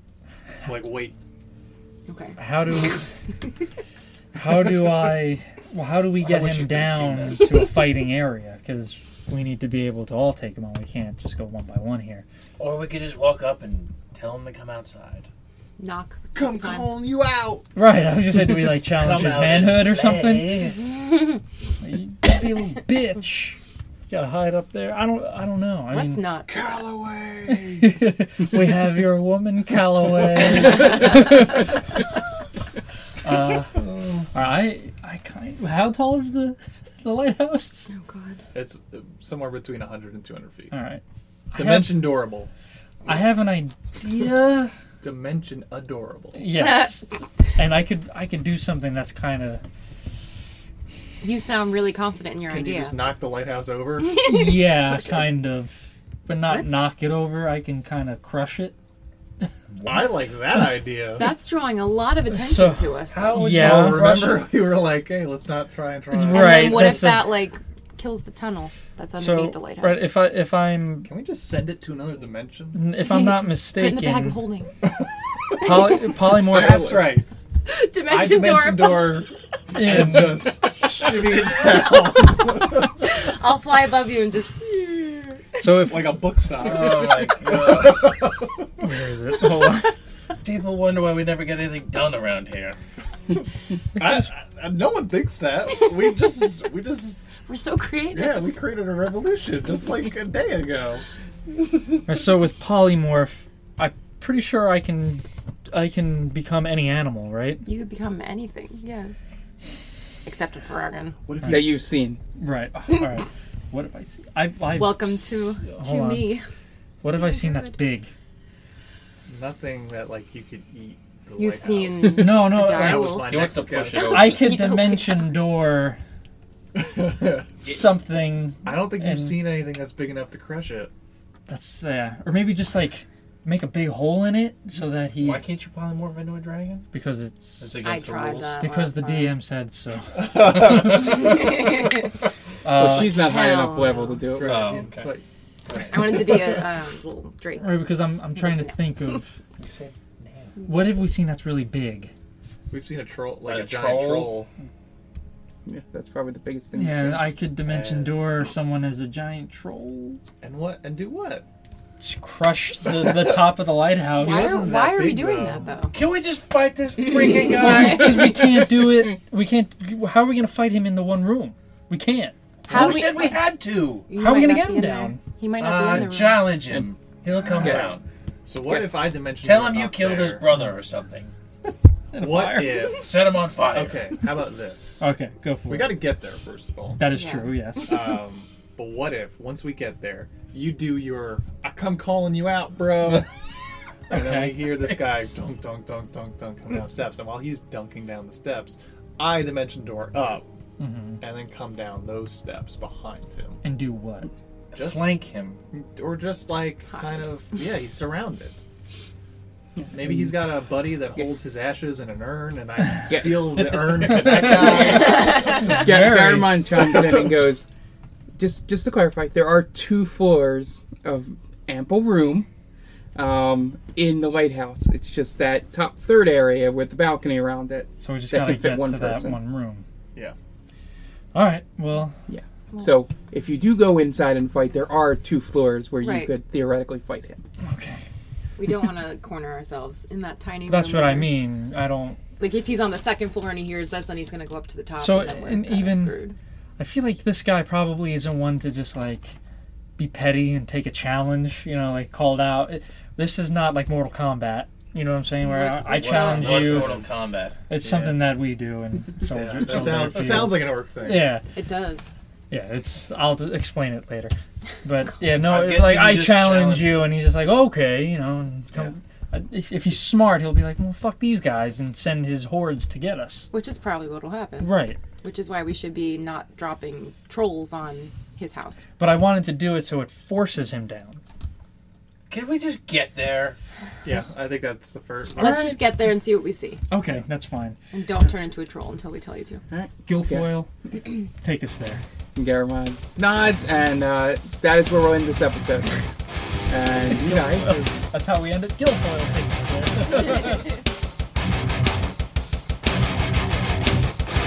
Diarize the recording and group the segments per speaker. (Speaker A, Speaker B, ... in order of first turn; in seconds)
Speaker A: 0.6-1.1, 16.3-17.6, 19.1-19.6, 26.5-27.9, 38.5-40.8, 41.5-42.5, 45.0-46.5, 52.4-54.2, 59.8-61.3, 63.2-67.0, 71.0-73.0, 74.8-77.3, 78.0-82.9, 85.8-88.7, 94.0-97.2, 98.1-101.0, 111.2-111.8, 119.3-124.2, 126.7-127.6, 128.6-130.9, 140.1-141.5, 144.2-146.6, 152.7-154.5, 160.4-161.4, 164.1-165.8, 177.6-180.4, 182.1-185.0, 185.7-187.1, 187.8-193.3, 194.1-200.5, 201.2-203.6, 204.7-208.6, 209.9-215.7, 256.5-257.1, 257.8-258.1, 259.2-261.4, 284.0-285.8
Speaker B: 2.1-2.4, 15.8-16.9, 25.9-26.5, 37.9-38.4, 51.2-53.0, 56.5-56.8, 61.1-63.4, 66.2-70.1, 73.1-74.7, 77.7-79.2, 81.5-81.9, 83.0-85.7, 97.5-98.5, 107.6-109.1, 110.2-111.2, 114.7-116.4, 117.3-117.7, 121.3-123.6, 124.1-125.3, 137.8-139.4, 140.9-142.1, 143.0-144.2, 145.9-148.7, 164.2-165.9, 167.5-167.8, 172.7-173.4, 174.1-176.5, 187.1-187.5, 215.3-215.6, 236.0-236.3, 238.6-241.3, 242.4-246.3, 255.4-256.6, 261.5-262.1, 273.5-278.9, 285.4-286.8, 287.9-289.6
Speaker C: 2.4-3.0, 4.3-12.2, 17.7-20.7, 21.8-23.6, 24.1-26.3, 27.5-32.0, 33.2-37.9, 40.7-41.0, 41.5-42.2, 43.0-44.7, 46.3-49.6, 54.1-58.7, 62.3-64.4, 66.1-67.4, 69.2-71.1, 72.7-74.4, 75.6-77.1, 79.7-80.6, 85.6-86.3, 88.8-89.9, 102.0-107.6, 112.4-116.3, 117.0-118.1, 122.2-123.2, 123.9-126.0, 127.6-129.5, 131.5-135.4, 136.9-137.8, 138.6-141.2, 142.6-143.3, 147.6-149.3, 150.6-152.1, 156.7-160.2, 162.0-164.6, 167.4-173.1, 174.2-175.2, 182.1-183.0, 185.0-186.0, 187.0-188.1, 194.1-194.8, 200.8-201.2, 203.6-204.3, 214.1-216.7, 228.0-229.8, 231.3-232.2, 237.6-238.0, 240.7-242.2, 245.0-246.2, 246.8-249.3, 250.0-257.0, 257.7-261.4, 262.5-273.5, 274.6-275.0, 279.0-281.2, 285.4-285.9, 286.9-287.8, 290.1-292.0, 297.1-300.8
Speaker D: 6.2-7.6, 12.6-15.3, 18.9-20.9, 59.7-60.1, 63.1-64.4, 86.5-88.2, 90.4-92.8, 123.1-124.5, 135.1-136.9, 137.6-138.7, 144.4-145.2, 145.7-146.3, 149.6-150.6, 153.4-154.5, 157.7-158.1, 165.9-168.3, 172.7-174.1, 175.6-178.0, 179.4-181.3, 182.9-184.2, 204.7-205.6, 255.8-258.0, 265.2-267.1, 282.3-283.6
Speaker E: 111.5-112.2, 142.7-144.9, 155.7-157.3, 209.8-210.3, 213.1-213.7, 215.3-217.7, 218.4-222.5, 223.1-229.4, 232.3-237.4, 289.7-290.5, 292.3-296.0, 296.7-297.9